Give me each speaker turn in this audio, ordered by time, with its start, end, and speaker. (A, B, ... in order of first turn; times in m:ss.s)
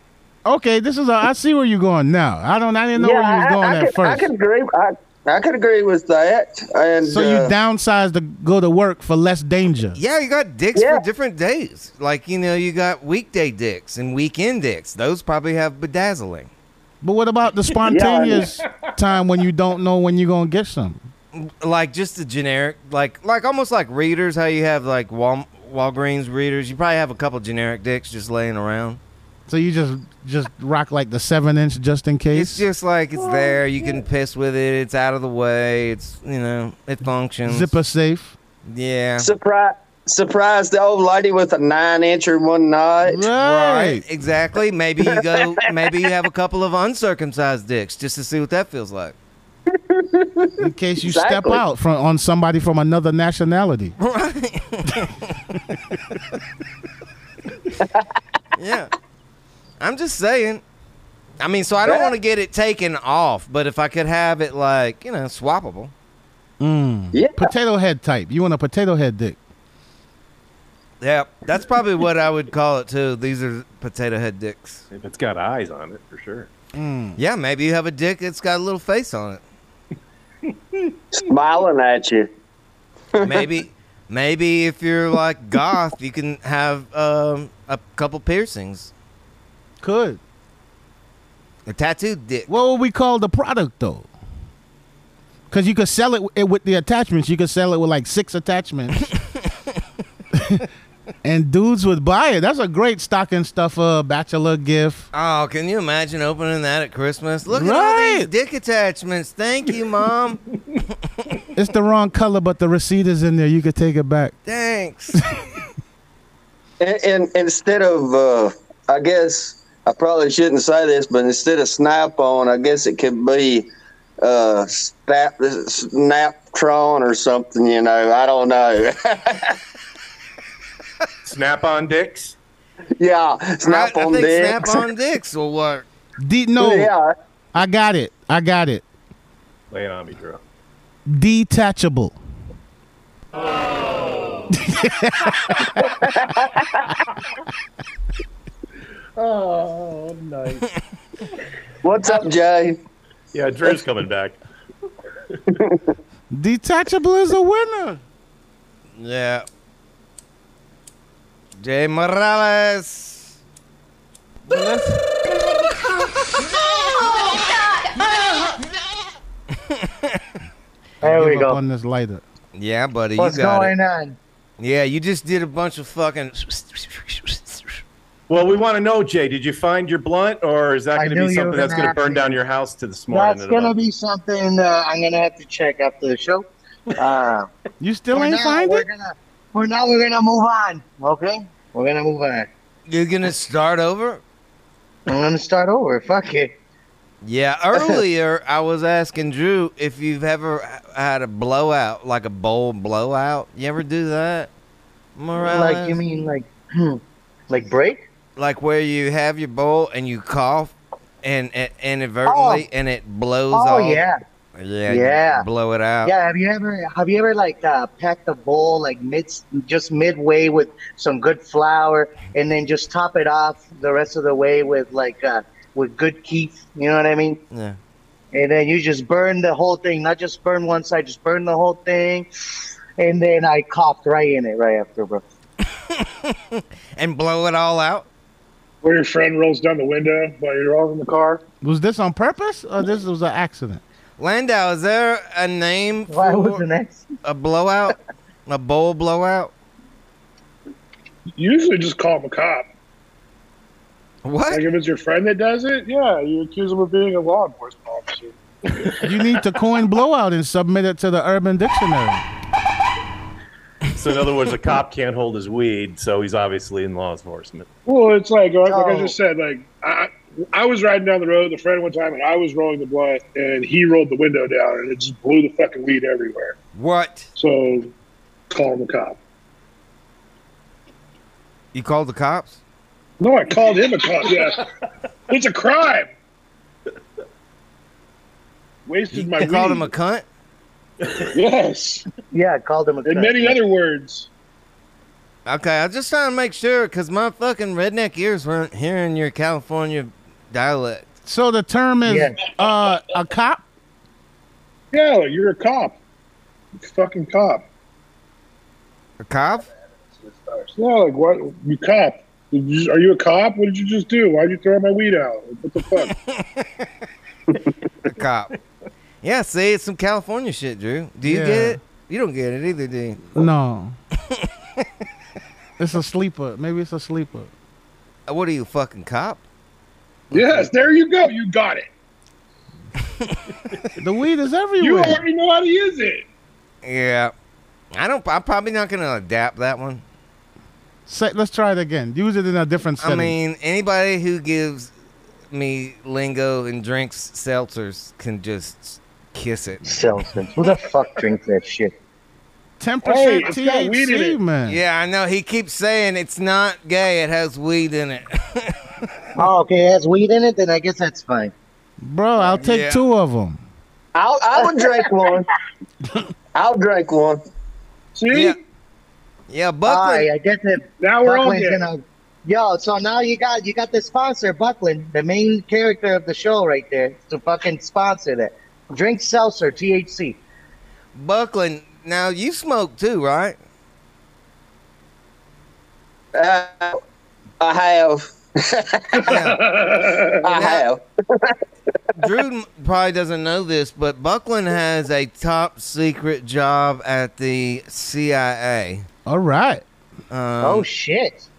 0:00.5-0:04.3 A
0:03.0-0:07.5 B
0:07.0-0:10.0 A
0:10.0-0:16.5 C
0:10.8-0:11.0 B
0:17.0-0:21.0 A
0:17.9-0:18.5 B
0:21.3-0:29.0 C
0:29.5-0:32.7 A
0:32.3-0:37.7 C
0:37.5-0:38.4 A
0:38.6-0:39.3 C
0:39.2-0:43.2 B
0:43.0-0:44.0 A
0:43.3-0:49.2 C
0:49.7-0:51.6 B
0:50.6-0:54.0 A
0:54.0-0:55.6 C
0:58.6-0:58.9 C
0:59.8-1:00.6 C
1:01.4-1:05.9 C
1:01.8-1:02.1 B
1:06.6-1:09.4 A
1:07.1-1:07.5 B
1:11.0-1:14.8 C
1:14.9-1:16.5 D
1:16.7-1:17.2 A
1:17.2-1:19.4 C
1:20.5-1:20.9 D
1:21.2-1:22.3 B
1:23.2-1:23.4 B
1:23.2-1:28.9 C
1:29.8-1:30.2 A
1:31.7-1:32.5 C
1:32.5-1:34.1 A
1:35.5-1:39.0 A
1:39.2-1:39.5 C
1:40.4-1:40.6 A
1:41.2-1:45.1 A
1:45.1-1:50.4 C
1:47.5-1:48.3 A
1:51.6-1:54.4 A
1:54.5-1:55.2 C
1:56.8-2:03.7 B
2:04.2-2:09.6 B
2:11.2-2:12.4 D
2:13.0-2:14.8 B
2:13.6-2:15.9 C
2:16.2-2:16.9 A
2:16.6-2:17.1 B
2:17.5-2:18.8 A
2:19.7-2:20.4 D
2:21.1-2:22.2 A
2:24.5-2:25.9 A
2:25.8-2:26.8 B
2:29.2-2:30.6 D
2:31.8-2:32.8 B
2:33.3-2:34.4 D
2:36.3-2:38.0 A
2:39.0-2:39.5 C
2:41.6-2:43.4 C
2:44.5-2:45.0 A
2:49.6-2:50.2 C
2:51.0-2:51.6 E
2:51.0-2:52.2 A
2:52.6-2:53.7 C
2:53.2-2:54.2 E
2:54.6-2:57.8 C
2:58.3-3:03.8 D
3:01.0-3:02.4 E
3:03.1-3:07.5 E
3:07.8-3:08.9 A
3:08.1-3:12.5 E
3:12.9-3:14.2 C
3:15.1-3:16.5 E
3:17.2-3:24.5 C
3:17.7-3:18.0 E
3:25.2-3:26.0 C
3:25.4-3:28.0 E
3:28.4-3:34.0 C
3:32.3-3:32.6 E
3:33.5-3:34.2 E
3:34.6-3:36.1 C
3:34.9-3:35.5 E
3:36.0-3:47.4 E
3:47.5-3:47.8 C
3:48.3-3:52.3 E
3:53.0-3:55.2 E
3:55.7-3:58.1 C
3:58.8-4:01.4 F
4:01.6-4:03.8 A
4:04.2-4:06.6 C
4:06.1-4:07.0 E
4:07.2-4:08.0 C
4:08.5-4:09.5 C
4:11.4-4:12.7 F
4:14.2-4:14.6 C
4:14.5-4:18.4 F
4:19.0-4:22.2 A
4:23.9-4:27.7 D
4:27.9-4:36.6 F
4:28.7-4:29.2 E
4:36.8-4:37.3 C
4:37.4-4:37.9 F
4:38.5-4:39.2 F
4:41.7-4:42.6 C
4:43.2-4:44.6 F
4:45.3-4:46.1 F
4:48.9-4:49.9 F
4:49.1-4:50.2 C
4:51.3-4:52.0 F
4:52.3-4:53.6 E
4:53.0-4:54.3 F
4:55.5-5:01.1 C
5:01.3-5:03.6 A
5:02.0-5:02.4 E
5:04.9-5:06.0 F
5:06.8-5:07.6 F
5:09.2-5:09.7 C
5:10.5-5:16.1 F
5:16.0-5:16.9 C
5:18.1-5:18.5 C
5:19.2-5:23.5 C
5:21.2-5:21.8 A
5:23.3-5:24.0 A
5:24.3-5:24.9 C
5:25.8-5:27.5 A
5:28.3-5:29.4 C
5:30.3-5:31.9 F
5:30.3-5:30.7 C
5:34.0-5:35.2 A
5:34.8-5:36.2 F
5:36.8-5:37.3 C
5:37.9-5:40.0 C
5:41.1-5:43.4 A
5:43.0-5:44.9 C
5:45.5-5:50.1 C
5:49.8-5:51.9 E
5:52.8-5:54.8 A
5:53.0-5:54.4 F
5:54.7-5:58.8 C
5:59.4-6:01.5 E
6:02.0-6:03.6 A
6:02.6-6:03.0 C
6:04.2-6:05.5 B
6:04.6-6:05.1 E
6:06.6-6:07.4 B
6:08.2-6:08.6 F
6:08.3-6:08.6 C
6:09.5-6:10.3 C
6:09.9-6:20.4 E
6:11.0-6:11.9 F
6:21.2-6:23.6 C
6:26.4-6:27.0 B
6:27.6-6:29.3 B
6:29.2-6:30.5 F
6:29.3-6:29.6 C
6:30.4-6:31.6 B
6:30.6-6:30.8 C
6:32.2-6:39.1 C
6:39.3-6:39.8 A
6:40.3-6:40.9 C
6:40.6-6:41.5 E